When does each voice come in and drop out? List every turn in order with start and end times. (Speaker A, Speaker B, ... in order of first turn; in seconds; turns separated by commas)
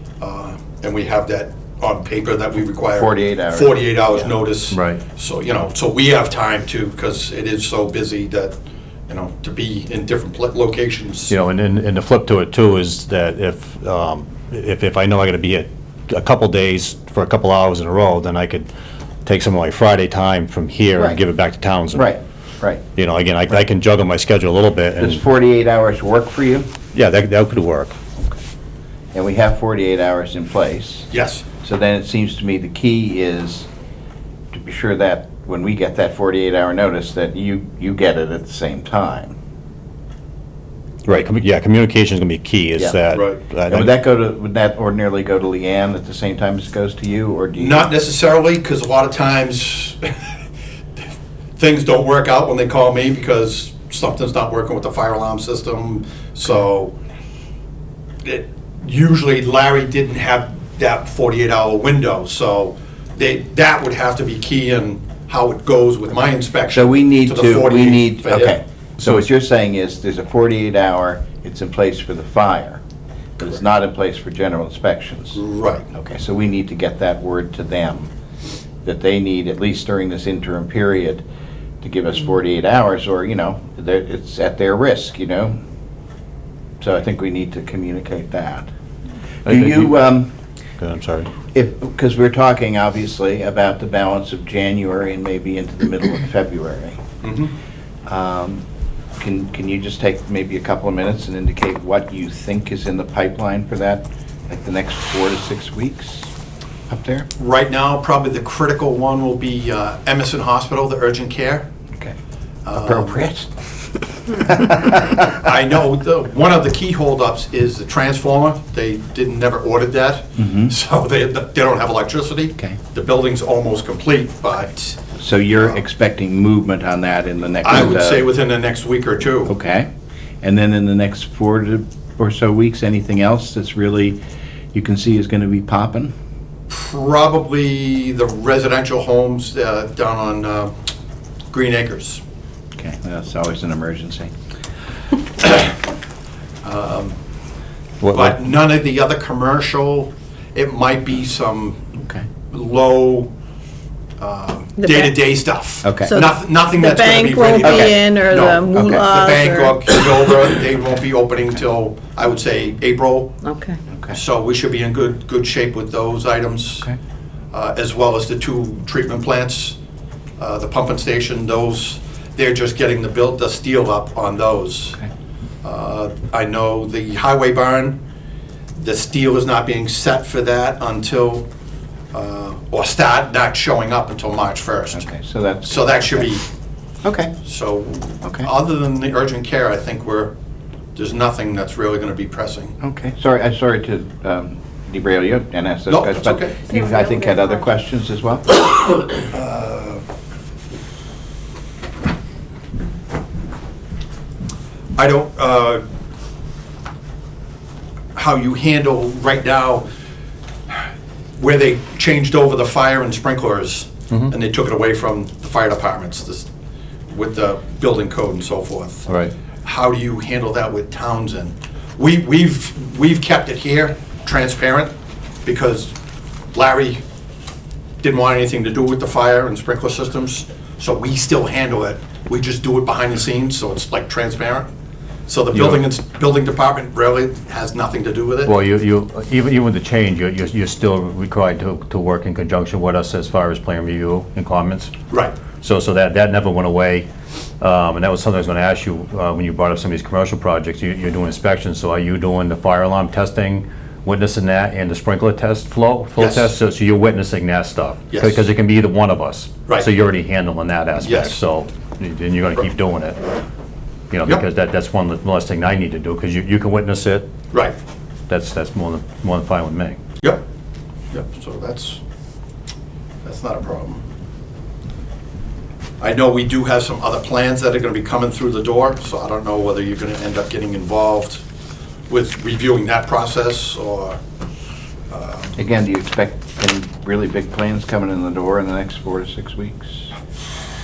Speaker A: 0.2-8.6, Speaker B: 2.9-3.8, Speaker C: 4.7-5.0, Speaker A: 9.1-11.3, Speaker C: 11.3-18.7, Speaker C: 19.2-22.1, Speaker B: 20.9-21.2, Speaker B: 21.9-22.8, Speaker C: 22.9-25.2, Speaker B: 25.0-26.7, Speaker C: 26.9-27.9, Speaker B: 29.1-31.1, Speaker A: 31.1-31.4, Speaker B: 31.6-33.7, Speaker B: 34.5-39.4, Speaker C: 41.0-43.9, Speaker A: 43.1-43.4, Speaker B: 43.7-47.9, Speaker A: 47.5-50.3, Speaker A: 51.6-57.0, Speaker A: 58.2-68.6, Speaker B: 66.7-72.8, Speaker B: 73.4-75.4, Speaker A: 75.3-75.9, Speaker B: 75.9-78.1, Speaker B: 78.8-81.2, Speaker B: 81.8-85.5, Speaker B: 86.8-88.7, Speaker C: 89.5-90.2, Speaker B: 89.5-90.3, Speaker C: 90.8-91.3, Speaker B: 91.5-97.0, Speaker A: 97.2-97.5, Speaker B: 98.0-98.6, Speaker B: 99.2-106.3, Speaker B: 106.9-107.3, Speaker A: 107.4-111.7, Speaker A: 112.6-113.2, Speaker B: 112.7-113.7, Speaker B: 114.3-115.5, Speaker A: 115.3-125.0, Speaker B: 120.3-120.7, Speaker B: 125.2-128.2, Speaker A: 127.6-129.5, Speaker B: 129.5-129.9, Speaker B: 130.4-134.2, Speaker B: 134.7-136.1, Speaker A: 136.7-140.7, Speaker A: 141.5-142.2, Speaker B: 142.8-144.3, Speaker A: 145.4-145.7, Speaker A: 146.6-147.2, Speaker C: 148.0-148.3, Speaker A: 148.1-151.8, Speaker B: 152.0-152.2, Speaker A: 152.5-153.3, Speaker A: 154.2-163.4, Speaker D: 154.8-155.1, Speaker B: 155.8-156.1, Speaker D: 156.0-160.1, Speaker B: 157.6-159.1, Speaker D: 163.4-163.8, Speaker A: 164.1-166.9, Speaker A: 167.5-169.8, Speaker A: 170.4-175.0, Speaker A: 175.6-178.0, Speaker A: 178.8-181.4, Speaker A: 182.1-185.1, Speaker B: 184.9-186.3, Speaker A: 185.6-186.4, Speaker B: 187.0-187.3, Speaker A: 187.4-190.3, Speaker B: 188.2-188.5, Speaker A: 190.9-192.8, Speaker B: 192.8-198.6, Speaker A: 195.9-196.6, Speaker D: 196.7-197.5, Speaker A: 199.3-200.0, Speaker A: 204.9-205.8, Speaker A: 208.1-209.9, Speaker A: 211.4-216.5, Speaker A: 217.1-219.1, Speaker C: 219.1-219.3, Speaker A: 219.6-224.9, Speaker A: 225.4-225.9, Speaker A: 226.5-227.0, Speaker A: 228.0-234.7, Speaker A: 235.3-238.5, Speaker C: 235.5-235.8, Speaker C: 238.4-244.9, Speaker A: 245.1-245.3, Speaker C: 245.6-247.1, Speaker C: 247.6-263.2, Speaker A: 256.2-256.5, Speaker A: 258.1-258.4, Speaker A: 261.0-261.4, Speaker C: 264.1-267.3, Speaker C: 268.3-270.0, Speaker A: 271.1-272.0, Speaker A: 273.2-274.0, Speaker A: 276.0-281.4, Speaker A: 282.1-284.2, Speaker A: 285.1-285.5, Speaker B: 285.6-290.1